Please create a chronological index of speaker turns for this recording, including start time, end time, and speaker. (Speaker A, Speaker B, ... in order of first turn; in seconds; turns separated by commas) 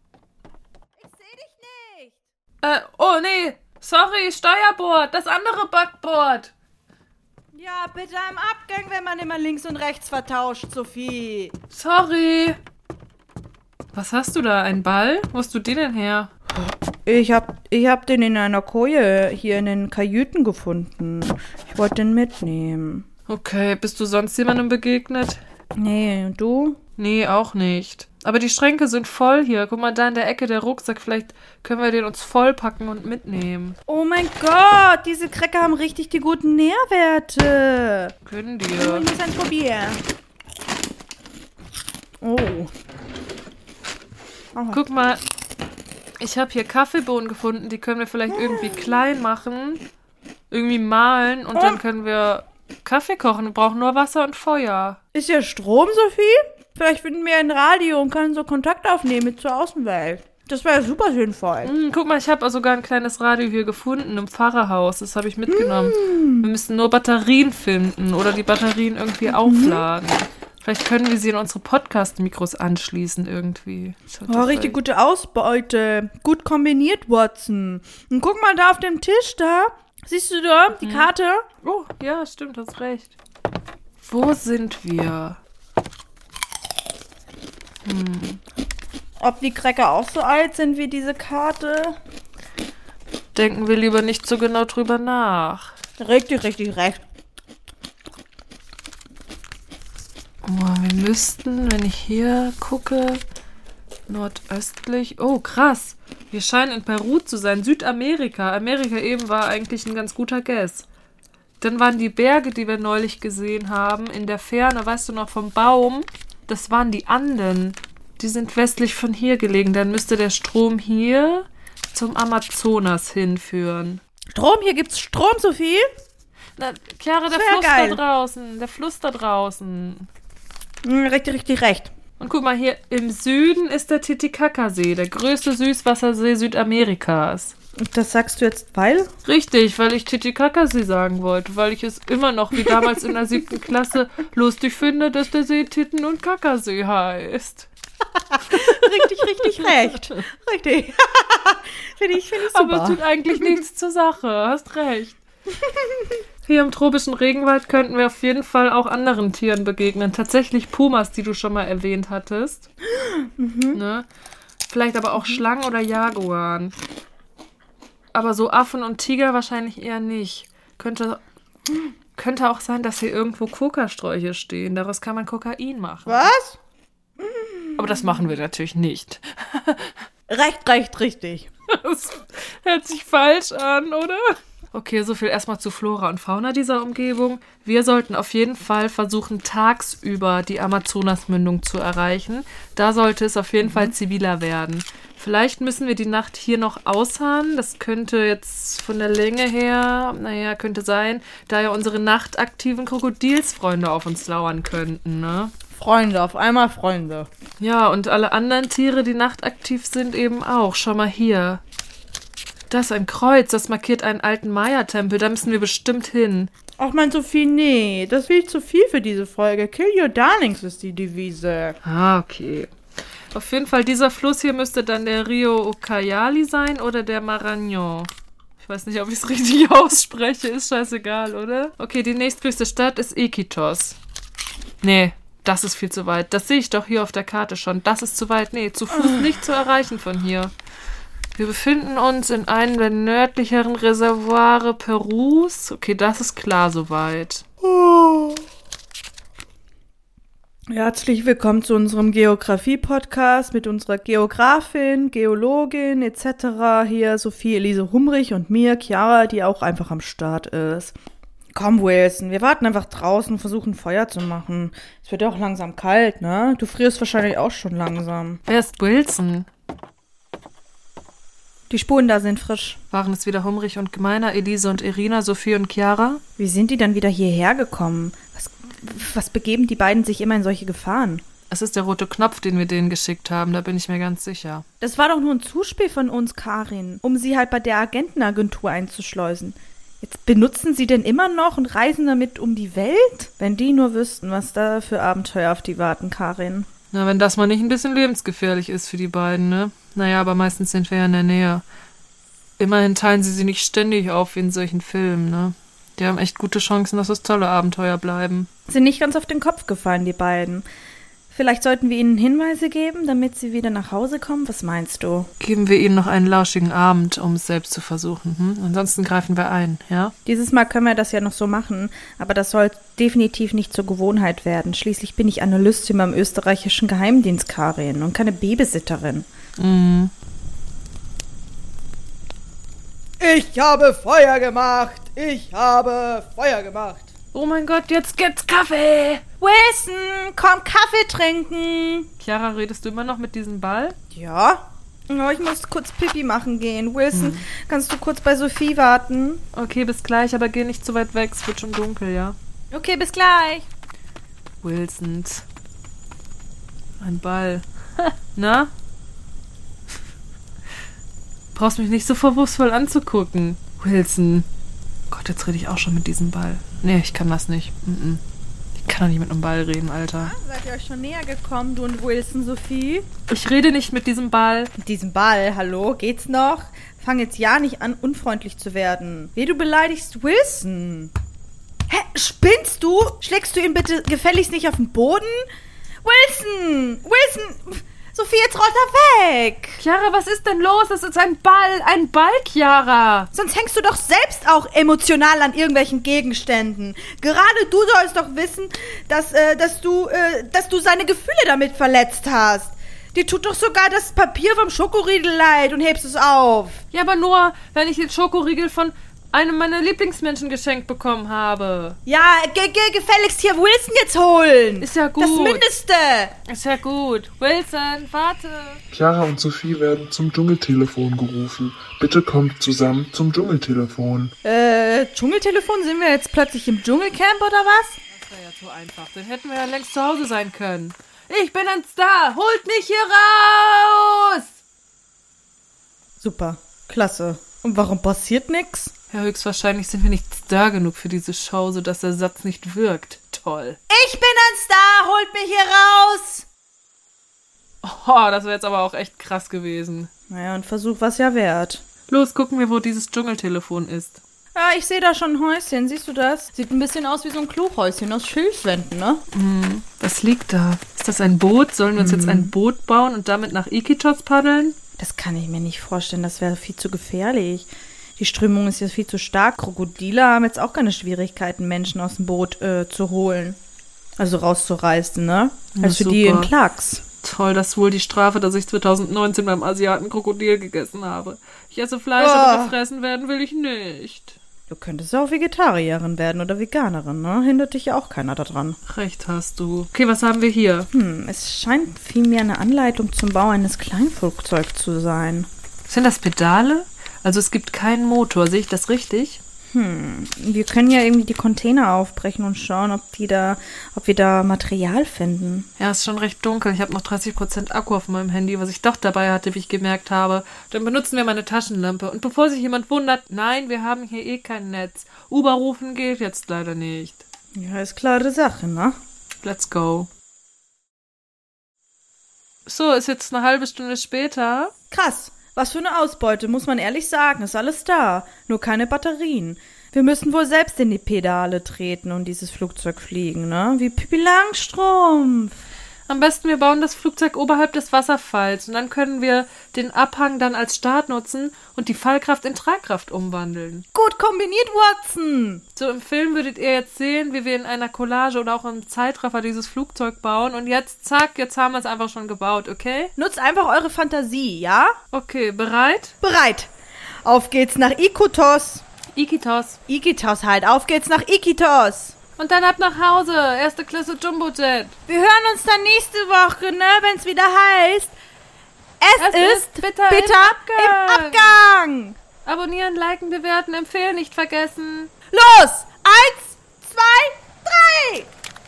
Speaker A: 0.9-2.2, Speaker B: 2.6-6.5, Speaker A: 7.5-11.5, Speaker B: 11.7-12.6, Speaker B: 13.9-16.3, Speaker A: 16.5-23.1, Speaker B: 23.3-25.4, Speaker A: 25.8-26.8, Speaker B: 27.0-33.8, Speaker A: 33.9-38.1, Speaker B: 38.2-39.1, Speaker A: 38.8-40.0, Speaker A: 42.2-42.7, Speaker A: 44.5-44.8, Speaker B: 44.7-45.2, Speaker B: 46.2-49.8, Speaker A: 48.3-48.8, Speaker B: 50.5-55.0, Speaker A: 55.1-61.7, Speaker B: 61.6-74.8, Speaker A: 65.5-66.5, Speaker A: 69.2-69.8, Speaker A: 74.3-81.5, Speaker B: 80.8-81.1, Speaker B: 81.6-83.1, Speaker B: 84.0-85.4, Speaker B: 87.8-88.4, Speaker A: 89.2-92.0, Speaker B: 93.3-95.7, Speaker A: 96.0-97.0, Speaker B: 100.4-103.2, Speaker B: 104.1-110.8, Speaker B: 111.6-124.0, Speaker A: 124.3-125.9, Speaker B: 126.6-130.1, Speaker A: 127.3-128.0, Speaker A: 130.8-131.9, Speaker B: 132.2-137.5, Speaker A: 137.8-139.1, Speaker B: 139.2-147.7, Speaker A: 142.6-142.9, Speaker A: 148.3-153.6, Speaker B: 148.6-150.2, Speaker B: 152.5-155.2, Speaker A: 155.7-156.2, Speaker B: 156.4-162.7, Speaker A: 162.9-163.8, Speaker B: 163.7-164.1, Speaker B: 164.7-166.7, Speaker B: 168.1-171.2, Speaker B: 172.1-176.3, Speaker A: 176.1-176.6, Speaker A: 177.2-178.3, Speaker B: 177.8-179.9, Speaker A: 180.3-181.5, Speaker B: 181.7-205.5, Speaker A: 193.6-193.9, Speaker A: 205.7-207.3, Speaker B: 207.6-211.6, Speaker B: 212.7-216.5, Speaker A: 216.8-221.8, Speaker B: 221.8-222.7, Speaker B: 223.3-233.9, Speaker B: 234.8-240.5, Speaker A: 239.0-239.3, Speaker B: 241.3-247.4, Speaker A: 247.6-248.4, Speaker A: 250.7-260.9, Speaker A: 261.5-268.4, Speaker B: 268.5-269.5, Speaker A: 271.7-272.8, Speaker B: 272.9-276.2, Speaker A: 276.4-281.2, Speaker B: 281.5-284.6, Speaker A: 284.8-296.7, Speaker B: 296.9-301.6, Speaker B: 302.6-308.5, Speaker A: 308.7-310.6, Speaker A: 311.3-315.3, Speaker B: 315.4-320.1, Speaker A: 320.2-329.3, Speaker B: 329.6-330.1, Speaker A: 333.2-337.1, Speaker B: 337.3-339.2, Speaker A: 339.4-342.1, Speaker B: 342.2-344.0, Speaker A: 344.1-349.4, Speaker B: 347.1-347.4, Speaker B: 349.5-352.4, Speaker A: 352.7-353.7, Speaker B: 354.6-355.4, Speaker B: 357.0-358.7, Speaker B: 361.5-364.4, Speaker B: 365.1-368.2, Speaker B: 368.8-370.3, Speaker A: 370.2-373.1, Speaker B: 373.3-374.7, Speaker A: 374.8-381.1, Speaker A: 381.9-385.5, Speaker A: 386.0-389.8, Speaker B: 389.8-393.3, Speaker A: 393.3-406.8, Speaker B: 406.9-412.0, Speaker A: 412.1-416.4, Speaker B: 414.8-415.6, Speaker B: 416.5-418.8, Speaker C: 418.9-424.3, Speaker A: 424.4-428.0, Speaker B: 428.1-434.6, Speaker A: 436.2-438.9, Speaker B: 439.1-443.8, Speaker A: 443.9-446.4, Speaker B: 447.8-450.1, Speaker A: 450.3-451.8, Speaker B: 452.1-454.2, Speaker A: 454.5-459.2, Speaker B: 459.3-464.7, Speaker A: 462.0-462.5, Speaker A: 465.0-473.6, Speaker A: 474.2-477.0, Speaker B: 475.7-476.5, Speaker B: 477.2-484.4, Speaker A: 482.2-482.7, Speaker A: 484.7-488.8, Speaker B: 488.9-490.9, Speaker A: 490.9-495.5, Speaker B: 495.9-499.4, Speaker A: 499.7-505.7, Speaker B: 505.8-517.2, Speaker A: 517.5-519.0, Speaker B: 519.4-520.1, Speaker B: 522.7-524.7, Speaker A: 524.9-535.5, Speaker B: 536.1-543.9, Speaker A: 543.9-545.6, Speaker B: 545.8-553.1, Speaker A: 553.2-555.0, Speaker B: 555.1-556.1, Speaker A: 556.2-556.7, Speaker A: 557.2-558.8, Speaker B: 559.1-559.8, Speaker A: 559.9-562.1, Speaker B: 562.4-565.0, Speaker A: 565.1-568.1, Speaker A: 569.0-572.2, Speaker B: 569.2-571.6, Speaker B: 572.5-575.1, Speaker A: 575.3-578.3